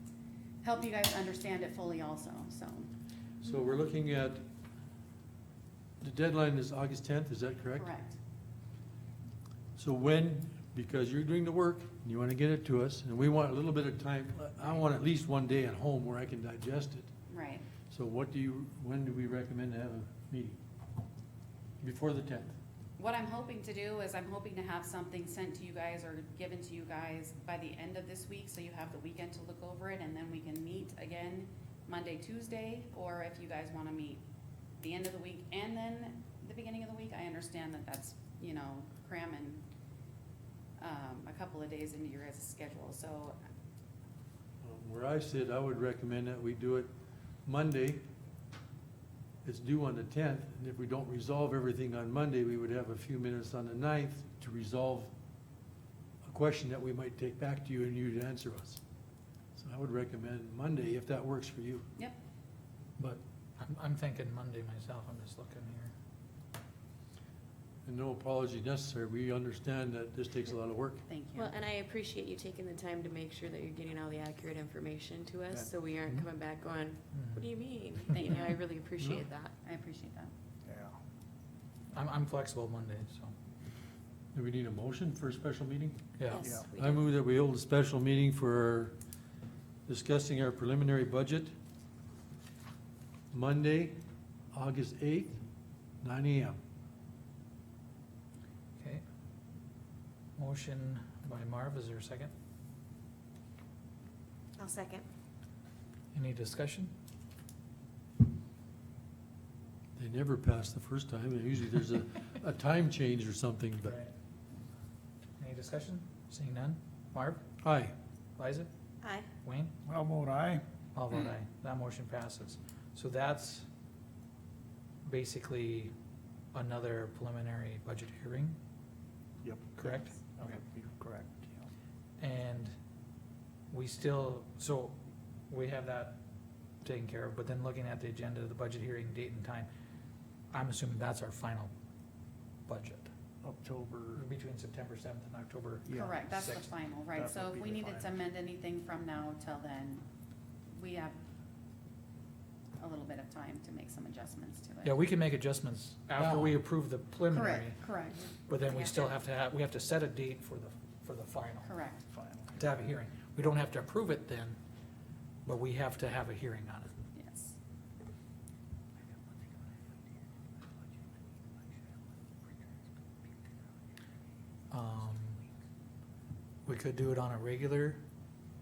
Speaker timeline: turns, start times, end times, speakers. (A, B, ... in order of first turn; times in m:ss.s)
0:00.6-0:02.9 A
0:03.4-0:04.4 B
0:06.0-0:07.9 B
0:07.8-0:08.2 A
0:09.8-0:17.1 B
0:17.3-0:17.6 A
0:17.9-0:20.6 B
0:21.8-0:22.6 B
0:23.0-0:34.2 A
0:34.8-0:39.6 A
0:40.8-0:43.4 A
0:44.6-0:46.9 B
0:47.4-0:48.0 B
0:49.4-0:55.1 B
0:56.2-0:58.8 B
0:59.6-1:01.9 B
1:03.0-1:05.9 C
1:07.8-1:11.0 B
1:11.1-1:11.6 A
1:11.3-1:19.5 D
1:17.1-1:17.5 C
1:18.1-1:18.5 A
1:19.0-1:19.2 B
1:19.6-1:20.3 A
1:20.6-1:21.0 E
1:21.9-1:23.3 C
1:24.3-1:26.0 B
1:26.2-1:26.5 C
1:26.3-1:27.1 D
1:26.4-1:26.7 E
1:26.8-1:29.0 B
1:29.9-1:31.5 B
1:33.3-1:34.0 B
1:34.5-1:35.4 B
1:36.0-1:36.6 B
1:38.8-1:39.0 C
1:40.4-1:42.3 C
1:44.6-1:45.0 D
1:46.1-1:46.9 C
1:50.0-1:54.0 B
1:53.8-1:54.1 C
1:55.4-1:57.4 C
1:57.6-1:57.9 B
1:58.4-1:58.7 C
1:59.4-1:59.7 C
1:59.8-2:00.6 E
2:00.9-2:03.7 C
2:05.0-2:05.9 C
2:06.5-2:08.6 C
2:09.4-2:11.7 E
2:09.8-2:10.3 C
2:12.2-2:12.7 C
2:13.7-2:15.0 C
2:15.5-2:16.2 C
2:16.8-2:19.7 C
2:20.5-2:21.7 C
2:22.7-2:23.1 C
2:23.4-2:24.2 E
2:24.1-2:26.7 C
2:25.8-2:26.2 E
2:25.9-2:30.1 A
2:27.2-2:28.1 E
2:30.7-2:31.2 A
2:32.8-2:35.0 A
2:34.8-2:37.9 C
2:36.2-2:36.6 B
2:37.3-2:39.2 A
2:38.5-2:41.7 C
2:41.6-2:42.0 A
2:42.1-2:42.5 E
2:42.5-2:44.6 C
2:45.4-2:46.9 C
2:47.2-2:47.6 A
2:54.7-2:55.4 C
2:56.7-2:58.0 C